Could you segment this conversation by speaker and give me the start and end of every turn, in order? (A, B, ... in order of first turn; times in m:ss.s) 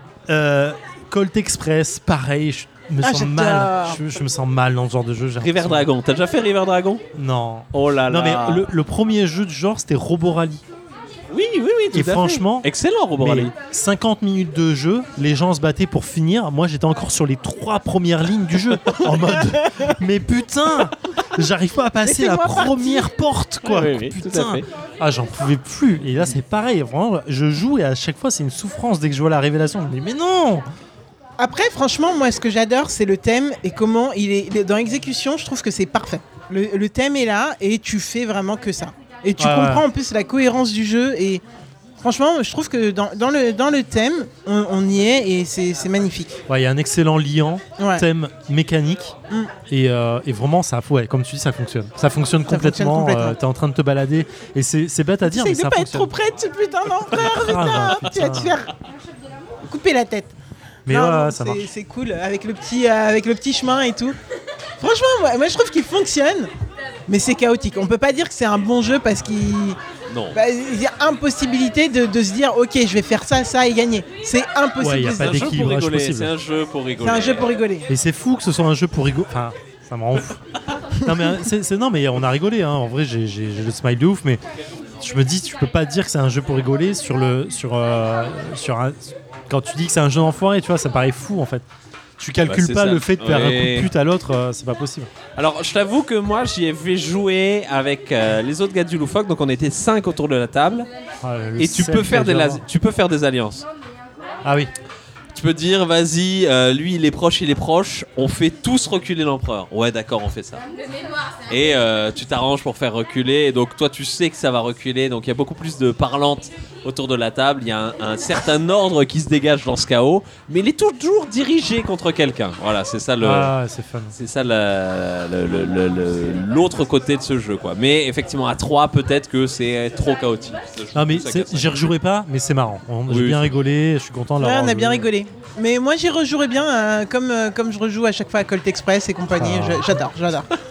0:00.3-0:05.9 A
0:03.0-0:04.0 B
0:05.4-0:07.0 C
0:07.2-0:10.6 A
0:07.7-0:08.7 C
0:11.3-0:13.5 C
0:11.9-0:30.7 A
0:22.0-0:23.1 B
0:23.6-0:24.6 C
0:31.4-0:41.4 B
0:39.4-0:39.8 A
0:42.0-0:46.4 B
0:46.5-0:49.2 A
0:47.8-0:48.1 B
0:49.7-0:56.1 A
0:52.5-0:53.4 B
0:55.2-0:58.7 B
0:57.2-0:58.6 A
0:59.6-1:00.3 B
1:00.9-1:01.7 A
1:00.9-1:04.2 B
1:04.8-1:06.5 B
1:07.1-1:09.8 B
1:10.1-1:10.4 C
1:10.3-1:15.5 B
1:14.8-1:16.3 A
1:15.0-1:17.6 C
1:17.0-1:17.9 B
1:17.9-1:24.4 A
1:20.9-1:21.4 B
1:25.0-1:31.6 A
1:32.2-1:35.1 A
1:32.4-1:33.9 C
1:35.4-1:40.9 C
1:41.2-1:42.6 A
1:41.6-1:43.7 C
1:44.4-1:44.7 A
1:45.3-1:50.6 C
1:51.5-2:03.6 C
2:03.2-2:04.2 A
2:04.2-2:11.9 C
2:10.9-2:15.1 A
2:13.1-2:13.6 C
2:14.4-2:20.5 B
2:19.3-2:20.0 A